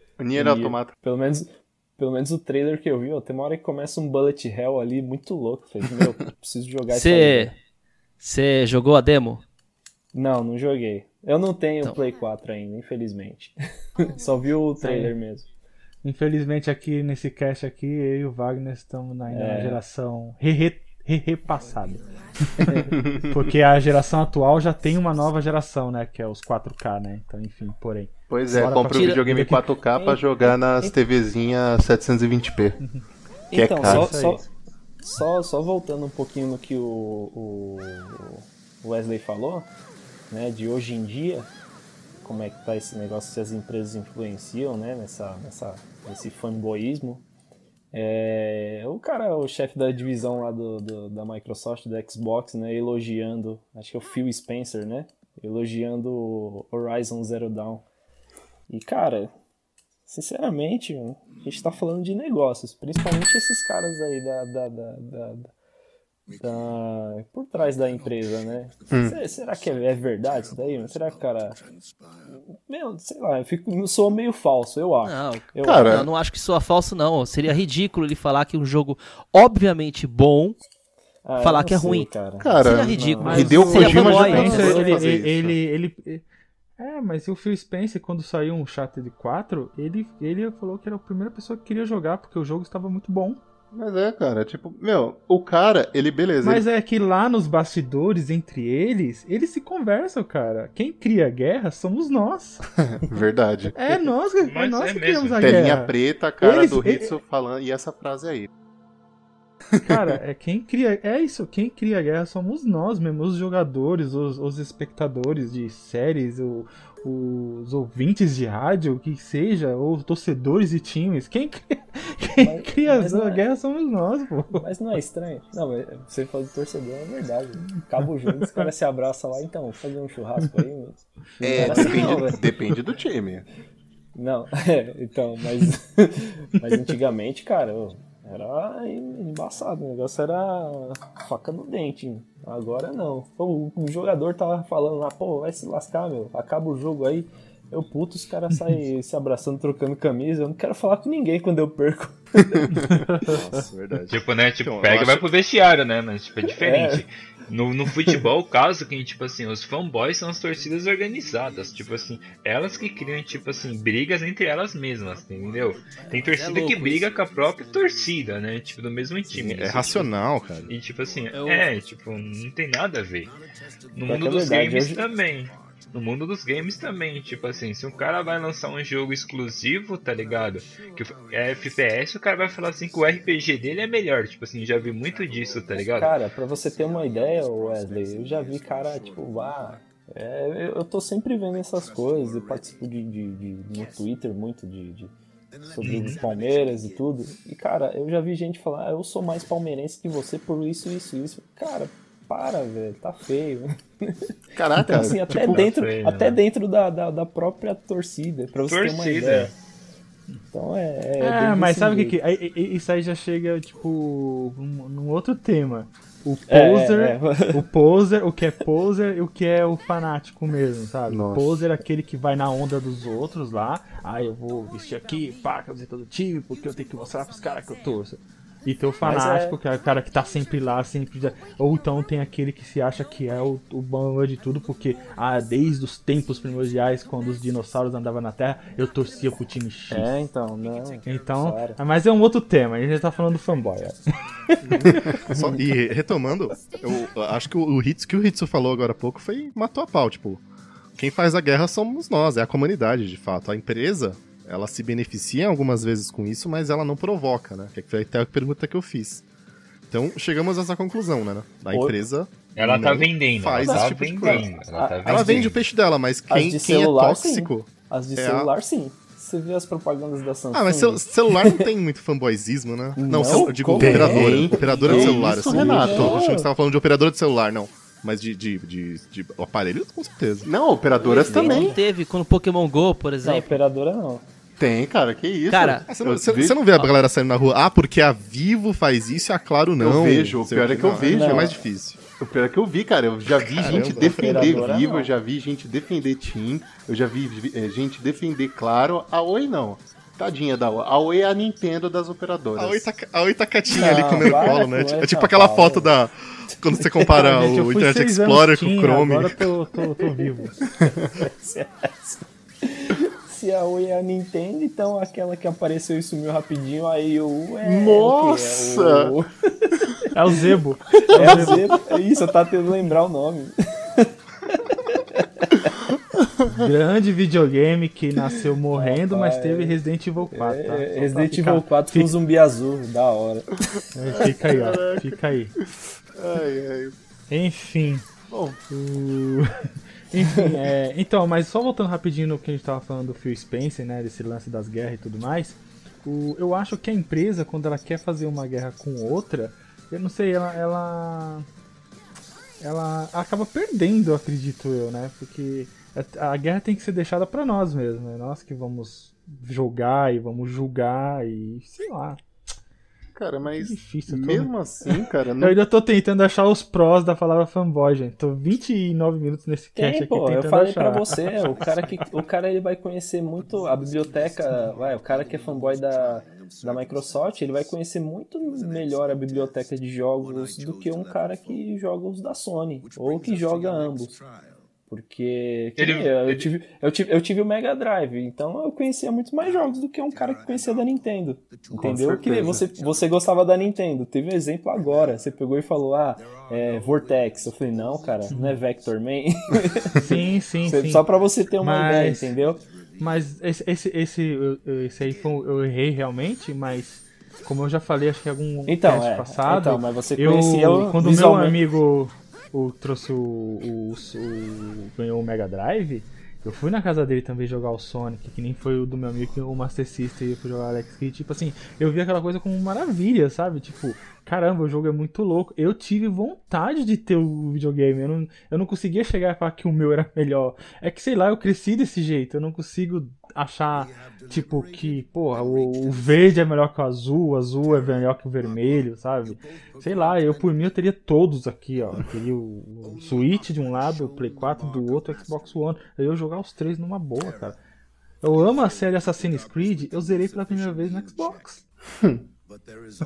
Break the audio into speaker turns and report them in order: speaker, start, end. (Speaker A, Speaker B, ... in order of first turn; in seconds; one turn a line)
Speaker A: 0.2-0.9
Speaker B: 0.3-7.5
Speaker C: 6.9-7.5
Speaker C: 8.2-9.4
Speaker B: 10.1-15.5
Speaker D: 14.8-15.1
Speaker D: 16.0-29.8
Speaker B: 19.3-19.8
Speaker A: 22.9-23.4
Speaker A: 28.3-32.8
Speaker C: 28.8-29.2
Speaker B: 29.9-30.9
Speaker B: 33.5-34.4
Speaker A: 33.5-34.4
Speaker D: 33.9-34.4
Speaker B: 35.0-39.7
Speaker B: 40.3-41.5
Speaker B: 42.2-47.2
Speaker B: 47.9-57.8
Speaker B: 58.7-59.3
Speaker B: 60.1-65.5
Speaker B: 66.4-71.6
Speaker A: 68.9-69.2
Speaker B: 72.5-76.0
Speaker C: 75.0-80.6
Speaker A: 75.6-76.1
Speaker B: 81.2-85.0
Speaker C: 81.4-84.8
Speaker A: 82.4-85.5
Speaker D: 83.2-86.2
Speaker D: 86.8-93.4
Speaker A: 93.7-96.6
Speaker D: 96.4-102.6
Speaker A: 102.8-103.8
Speaker D: 103.7-107.2
Speaker E: 104.4-105.7
Speaker A: 105.4-108.5
Speaker D: 109.8-124.7
Speaker A: 109.8-110.1
Speaker B: 122.4-123.4
Speaker B: 124.5-132.5
Speaker D: 128.3-128.7
Speaker A: 131.4-133.4
Speaker D: 131.5-132.2
Speaker B: 134.1-152.8
Speaker D: 152.7-153.3
Speaker F: 153.2-155.2
Speaker E: 154.1-170.1
Speaker B: 156.4-157.0
Speaker C: 166.0-167.0
Speaker F: 169.3-170.7
Speaker E: 170.7-173.3
Speaker C: 171.3-171.7
Speaker E: 173.9-186.2
Speaker B: 174.1-175.0
Speaker B: 185.8-195.1
Speaker B: 195.7-209.5
Speaker E: 195.8-196.2
Speaker A: 204.5-205.6
Speaker E: 205.4-206.4
Speaker E: 208.6-209.5
Speaker B: 210.5-212.1
Speaker D: 211.2-240.1
Speaker B: 216.5-217.6
Speaker A: 221.1-221.6
Speaker B: 229.0-229.6
Speaker B: 239.9-241.8
Speaker D: 241.0-244.0
Speaker A: 244.7-245.1
Speaker B: 244.8-245.6
Speaker F: 245.3-250.4
Speaker F: 251.0-259.2
Speaker F: 259.9-264.5
Speaker E: 262.5-265.6
Speaker B: 263.6-265.5
Speaker F: 265.0-268.5
Speaker B: 266.3-271.7
Speaker F: 270.5-280.5
Speaker B: 273.0-276.5
Speaker A: 273.7-276.2
Speaker A: 280.4-281.8
Speaker B: 281.0-281.8
Speaker C: 281.0-283.6
Speaker B: 283.2-284.2
Speaker A: 284.6-286.6
Speaker C: 285.5-285.9
Speaker F: 285.9-292.0
Speaker A: 289.8-291.6
Speaker B: 291.1-291.6
Speaker A: 292.2-302.9
Speaker F: 293.3-294.8
Speaker B: 293.7-295.1
Speaker F: 302.6-309.4
Speaker B: 303.7-305.9
Speaker B: 306.8-307.2
Speaker D: 307.1-310.6
Speaker B: 311.0-319.9
Speaker A: 317.6-319.2
Speaker D: 320.1-321.7
Speaker B: 321.1-325.7
Speaker A: 326.2-326.7
Speaker D: 326.5-332.1
Speaker B: 328.7-329.8
Speaker B: 330.3-334.3
Speaker D: 333.9-335.5
Speaker A: 334.2-336.9
Speaker D: 337.3-338.1
Speaker A: 338.3-338.6
Speaker D: 338.7-339.5
Speaker D: 340.1-351.4
Speaker D: 352.6-362.2
Speaker A: 363.1-365.6
Speaker D: 363.5-364.5
Speaker D: 365.4-371.1
Speaker B: 369.8-384.2
Speaker B: 384.9-402.6
Speaker E: 385.8-386.5
Speaker A: 391.8-392.6
Speaker D: 398.3-398.6
Speaker D: 400.0-401.0
Speaker D: 401.6-402.3
Speaker D: 403.0-447.6
Speaker B: 408.7-411.6
Speaker D: 448.2-451.6
Speaker A: 451.9-452.2